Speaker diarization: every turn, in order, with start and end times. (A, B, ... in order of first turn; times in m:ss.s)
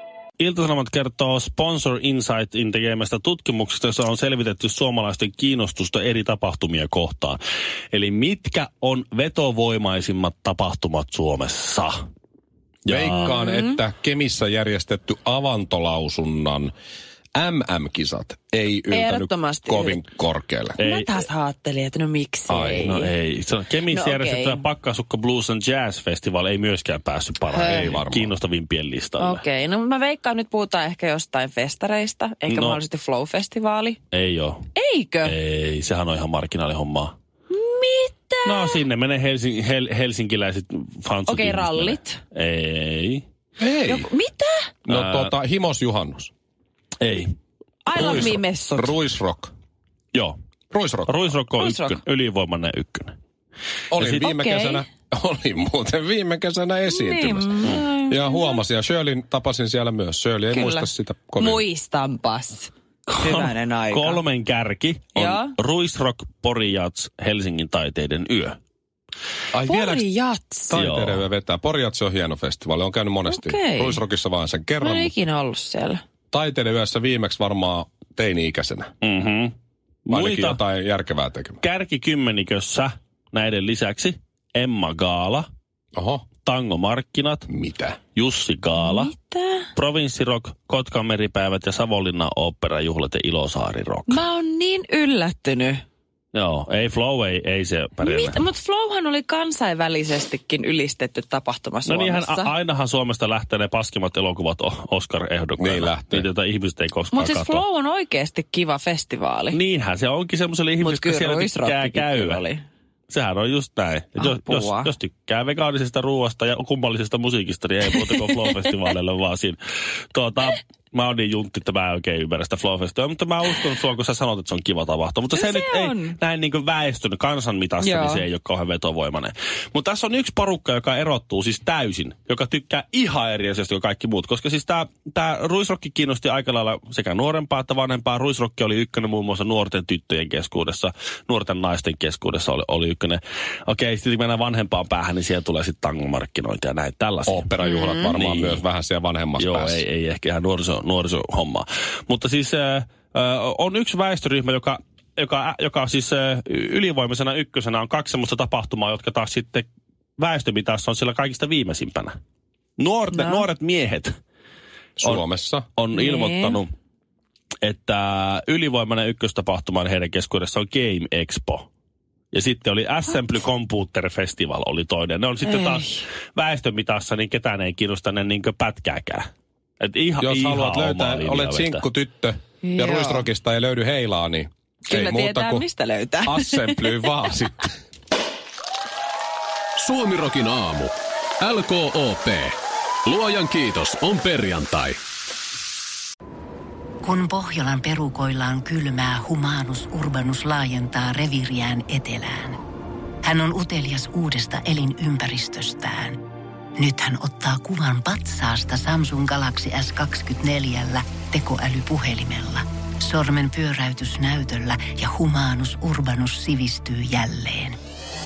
0:00.4-0:07.4 A
0:07.9-0:12.0 A
0:12.9-0:13.3 A
0:12.9-0:16.7 B
0:13.2-0:13.8 C
0:17.4-0:20.8 B
0:18.9-0:20.0 C
0:20.8-0:21.1 A
0:20.8-0:23.1 C
0:22.5-0:22.9 B
0:22.8-0:29.4 A
0:23.9-0:24.6 C
0:27.5-0:28.0 C
0:27.6-0:28.3 B
0:29.2-0:34.0 C
0:32.5-0:32.8 A
0:34.1-0:34.6 A
0:34.8-0:35.4 C
0:35.2-0:37.2 A
0:37.5-0:38.8 C
0:38.5-0:43.2 A
0:41.3-0:42.2 C
0:43.6-0:44.1 B
0:43.9-0:44.7 C
0:44.9-0:46.3 B
0:44.9-0:45.3 A
0:47.0-0:47.3 A
0:47.8-0:49.0 C
0:48.0-0:49.5 B
0:48.0-0:48.2 A
0:50.7-0:51.2 B
0:51.1-0:53.2 A
0:51.6-0:52.0 C
0:53.9-1:01.6 B
0:53.9-0:54.4 A
0:54.3-0:54.8 C
0:56.9-0:58.6 C
1:00.5-1:04.2 C
1:03.1-1:08.6 A
1:05.2-1:05.5 C
1:09.5-1:10.1 B
1:09.7-1:10.7 C
1:10.7-1:15.1 B
1:10.7-1:11.3 A
1:13.3-1:14.0 C
1:14.8-1:16.0 C
1:16.3-1:18.9 B
1:19.0-1:19.5 A
1:20.1-1:20.6 A
1:20.1-1:21.6 B
1:21.6-1:25.5 A
1:26.0-1:26.2 B
1:26.4-1:27.5 A
1:27.5-1:28.0 B
1:28.2-1:29.1 A
1:28.8-1:29.7 C
1:29.8-1:34.2 A
1:34.1-1:35.8 C
1:36.3-1:38.4 A
1:38.0-1:42.5 C
1:41.9-1:47.6 A
1:45.6-1:46.3 B
1:47.1-1:49.6 C
1:49.5-1:52.4 A
1:50.8-1:52.6 C
1:53.1-1:59.6 A
1:54.2-1:54.9 C
2:00.1-2:27.5 A
2:05.3-2:06.2 C
2:07.8-2:08.2 C
2:27.3-2:29.8 B
2:27.6-2:28.1 C
2:28.2-2:28.6 A
2:29.4-2:39.7 A
2:40.2-2:42.2 A
2:42.8-2:44.2 A
2:43.2-2:43.4 C
2:45.0-2:45.7 B
2:45.8-2:46.7 A
2:45.9-2:46.6 C
2:47.6-2:51.7 A
2:52.3-2:59.3 A
2:55.5-2:55.8 C
2:59.8-3:01.8 A
3:00.2-3:05.7 B
3:02.6-3:03.3 C
3:04.9-3:07.1 C
3:06.2-3:07.7 B
3:09.8-3:12.6 D
3:13.1-3:15.0 D
3:17.0-3:22.6 E
3:23.2-3:26.2 E
3:26.8-3:37.8 E